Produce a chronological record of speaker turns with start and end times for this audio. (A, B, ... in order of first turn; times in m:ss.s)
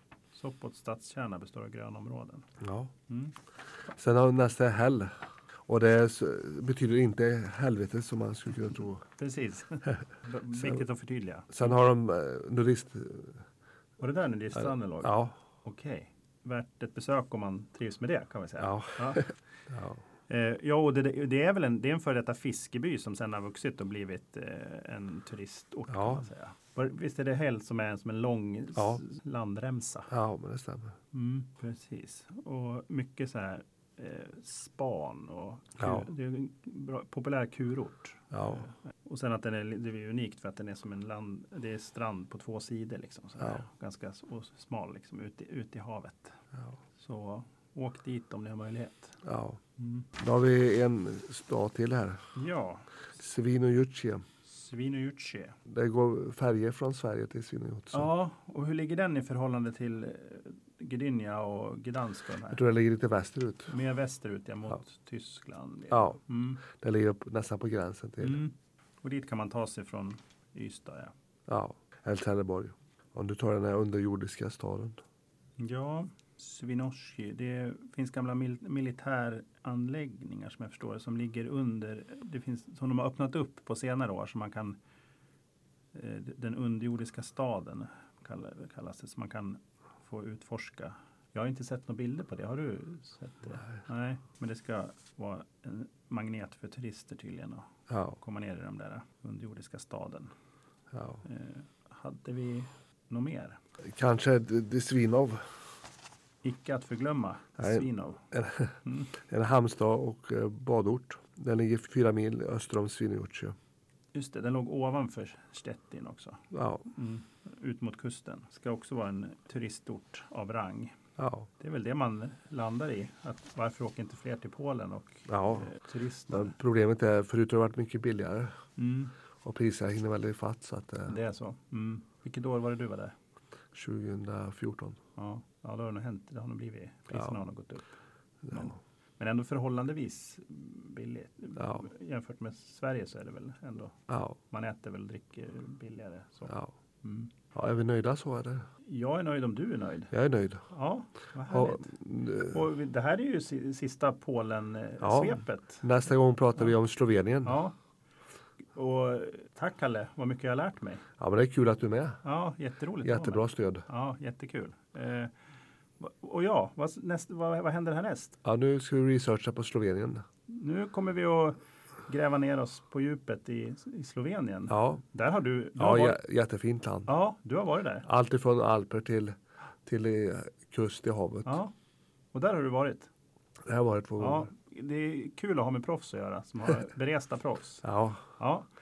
0:00.3-0:02.5 A
0:02.6-0:02.9 B
0:03.1-0:03.3 A
0:03.9-0:05.1 B
0:05.7-0:09.0 B
0:09.2-0:11.6 A
0:10.6-0:10.8 B
0:11.5-0:13.4 B
0:14.0-0:19.2 A
0:14.6-0:15.4 B
0:18.6-0:20.0 B
0:20.3-0:30.1 A
0:25.9-0:26.2 B
0:28.8-0:29.0 B
0:30.1-0:31.0 B
0:31.1-0:46.4 A
0:35.8-0:36.1 B
0:38.3-0:38.7 B
0:47.0-0:49.2 A
0:49.2-0:49.6 B
0:49.8-0:50.1 A
0:50.2-0:52.2 B
0:52.4-0:52.9 A
0:53.2-0:54.2 B
0:54.4-0:55.6 A
0:55.7-0:58.1 B
0:57.9-1:02.6 A
1:02.5-1:03.7 B
1:03.7-1:06.6 A
1:05.9-1:08.4 B
1:08.2-1:11.1 A
1:11.5-1:15.0 B
1:15.6-1:24.8 A
1:25.9-1:40.3 A
1:37.9-1:38.2 B
1:40.9-1:41.2 B
1:41.2-1:43.6 A
1:43.9-1:45.4 B
1:46.4-1:48.2 A
1:47.6-1:53.6 B
1:48.8-1:49.1 A
1:54.1-2:00.9 A
1:56.5-1:56.9 B
2:01.2-2:01.5 B
2:01.6-2:06.5 A
2:05.3-2:05.7 B
2:06.3-2:08.5 B
2:08.8-2:09.1 A
2:09.4-2:11.2 B
2:11.1-2:13.1 A
2:13.7-2:15.0 B
2:15.2-2:18.0 A
2:18.4-2:18.8 B
2:18.5-2:24.0 A
2:24.1-2:24.4 B
2:24.5-2:27.3 A
2:27.5-2:28.6 B
2:28.9-2:30.1 A
2:30.1-2:30.6 B
2:30.7-2:35.8 A
2:31.5-2:32.6 B
2:35.0-2:37.6 B
2:37.4-2:37.8 A
2:38.7-2:41.1 A
2:41.2-2:42.2 B
2:42.2-2:45.3 A
2:43.0-2:43.8 B
2:46.0-2:48.4 A
2:48.4-2:50.2 B
2:50.5-2:56.2 A
2:54.7-2:55.0 B
2:55.8-2:57.1 B
2:57.1-2:58.1 A
2:58.0-3:01.6 B
3:01.4-3:01.7 A
3:02.3-3:03.1 A
3:03.7-3:04.5 B
3:04.2-3:07.8 A
3:07.8-3:08.3 B
3:08.4-3:08.7 A